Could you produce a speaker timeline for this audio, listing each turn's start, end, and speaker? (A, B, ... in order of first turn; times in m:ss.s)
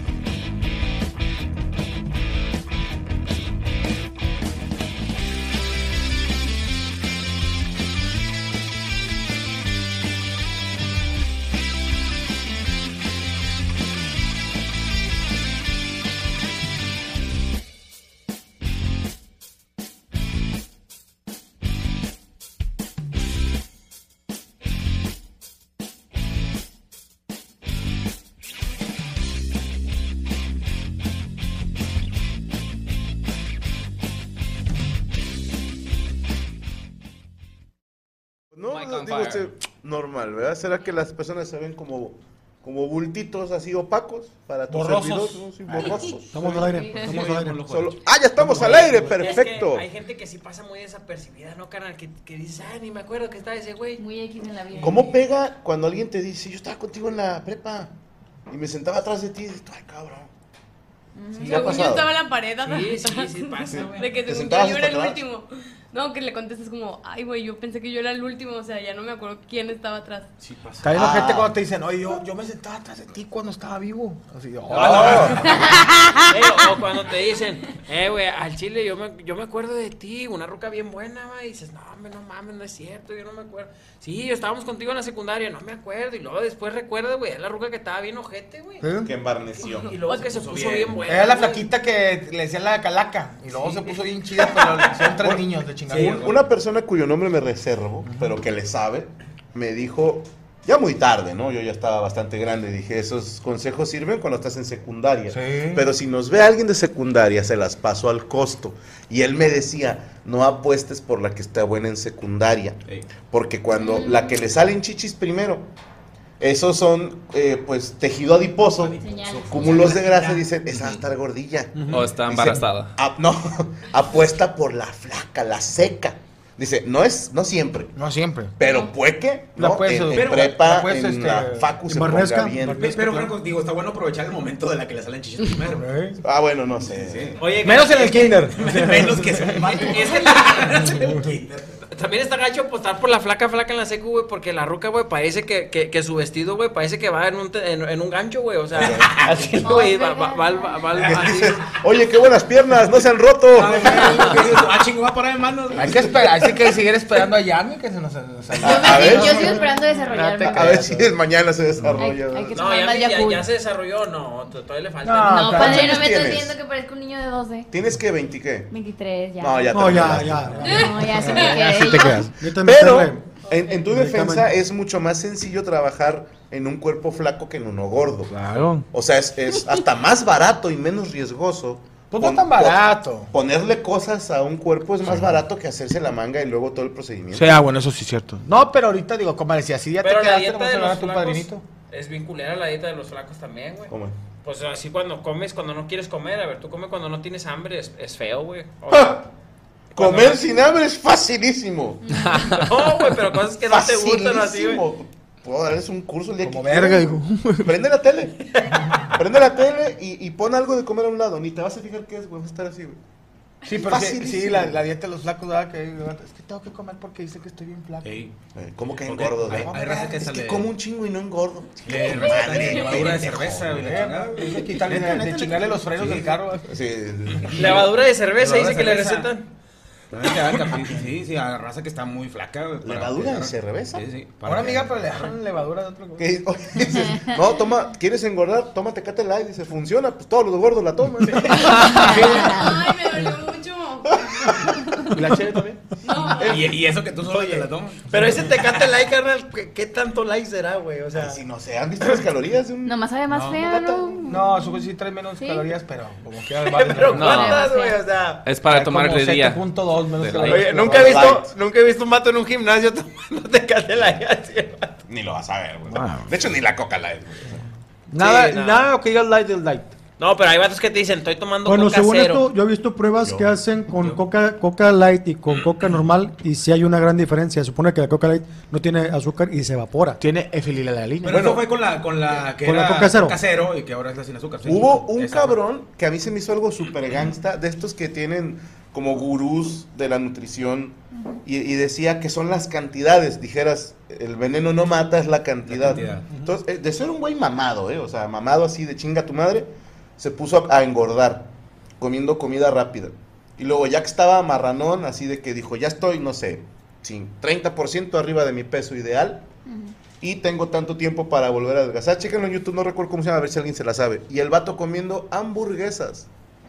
0:38.5-0:46.4 A
0:38.7-0:39.5 B
0:44.7-0:45.4 C
0:45.7-0:48.9 D
0:46.3-0:47.7 E
0:47.5-0:49.8 A
0:48.4-0:49.1 E
0:48.7-0:54.0 F
0:54.0-0:55.2 G
0:54.8-0:57.9 A
0:58.5-1:00.3 A
1:01.1-1:01.9 G
1:01.4-1:10.3 H
1:01.4-1:02.1 A
1:02.6-1:04.1 F
1:03.7-1:05.2 A
1:10.4-1:10.9 D
1:10.8-1:15.5 C
1:10.9-1:11.5 A
1:14.7-1:15.4 F
1:14.7-1:15.4 D
1:14.8-1:15.5 A
1:16.3-1:28.8 F
1:28.8-1:29.1 C
1:29.0-1:29.9 A
1:29.9-1:31.6 F
1:30.1-1:31.0 D
1:31.0-1:36.3 C
1:35.2-1:55.7 A
1:35.9-1:36.2 D
1:45.3-1:45.8 C
1:53.7-1:54.3 G
1:56.4-2:07.9 A
1:58.7-2:00.8 D
1:59.0-2:00.3 G
2:01.7-2:02.1 C
2:01.9-2:02.9 B
2:07.9-2:08.6 C
2:08.6-2:13.0 A
2:08.6-2:08.9 G
2:09.6-2:11.7 C
2:10.1-2:10.6 D
2:11.8-2:13.3 E
2:12.7-2:15.9 D
2:15.7-2:16.2 C
2:16.2-2:17.3 A
2:16.8-2:17.4 D
2:17.4-2:18.5 F
2:17.6-2:20.1 C
2:18.5-2:21.8 D
2:19.9-2:20.8 F
2:20.7-2:21.4 C
2:21.9-2:31.6 F
2:28.7-2:29.1 A
2:28.8-2:29.5 D
2:29.6-2:30.7 G
2:31.0-2:34.6 A
2:33.5-2:36.4 D
2:33.6-2:34.6 C
2:35.7-2:41.1 C
2:38.6-2:39.6 A
2:38.6-2:40.9 G
2:40.4-2:42.6 A
2:42.0-2:43.5 G
2:42.5-2:45.8 F
2:45.0-2:46.1 C
2:45.3-2:47.7 G
2:45.5-2:46.6 A
2:47.7-2:48.7 A
2:48.7-2:52.3 G
2:49.4-2:51.1 A
2:49.7-2:51.7 E
2:51.0-2:52.3 C
2:52.1-2:58.4 A
2:52.3-2:53.2 E
2:53.8-2:54.5 E
2:58.3-2:58.9 C
2:58.9-3:07.5 A
3:02.1-3:03.3 C
3:07.3-3:11.6 C
3:10.0-3:13.9 F
3:13.9-3:14.2 A
3:14.4-3:19.2 F
3:18.9-3:19.2 A
3:19.9-3:22.0 A
3:20.0-3:20.4 F
3:22.4-3:24.8 F
3:23.7-3:28.4 A
3:26.4-3:27.7 C
3:29.1-3:33.0 A
3:33.6-3:38.1 C
3:33.8-3:34.8 A
3:38.0-3:38.3 D
3:38.5-3:43.7 A
3:39.0-3:40.7 D
3:41.8-3:46.4 D
3:43.0-3:46.6 C
3:46.7-3:47.8 A
3:47.3-3:49.3 D
3:47.5-3:49.4 F
3:50.1-3:55.3 D
3:52.8-3:54.0 A
3:54.4-3:56.3 C
3:56.2-4:02.4 A
4:01.8-4:02.8 G
4:01.8-4:02.4 D
4:02.1-4:04.5 H
4:04.3-4:04.8 A
4:05.1-4:05.9 C
4:06.0-4:06.6 H
4:06.3-4:08.1 D
4:07.3-4:11.4 F
4:11.1-4:14.2 A
4:12.8-4:15.7 G
4:14.2-4:17.5 C
4:16.6-4:18.4 F
4:17.1-4:17.6 B
4:17.2-4:18.0 G
4:18.4-4:19.7 B
4:18.6-4:21.4 C
4:20.2-4:20.6 B
4:20.4-4:25.0 F
4:20.8-4:21.5 A
4:25.1-4:27.6 A
4:28.1-4:29.9 C
4:28.2-4:28.9 F
4:30.2-4:32.5 F
4:31.6-4:40.2 E
4:40.2-4:41.4 C
4:41.2-4:45.6 D
4:41.2-4:41.7 A
4:42.6-4:43.4 E
4:44.6-5:01.5 A
4:55.7-4:56.3 D
5:02.0-5:09.4 A
5:09.6-5:09.9 G
5:10.2-5:16.3 A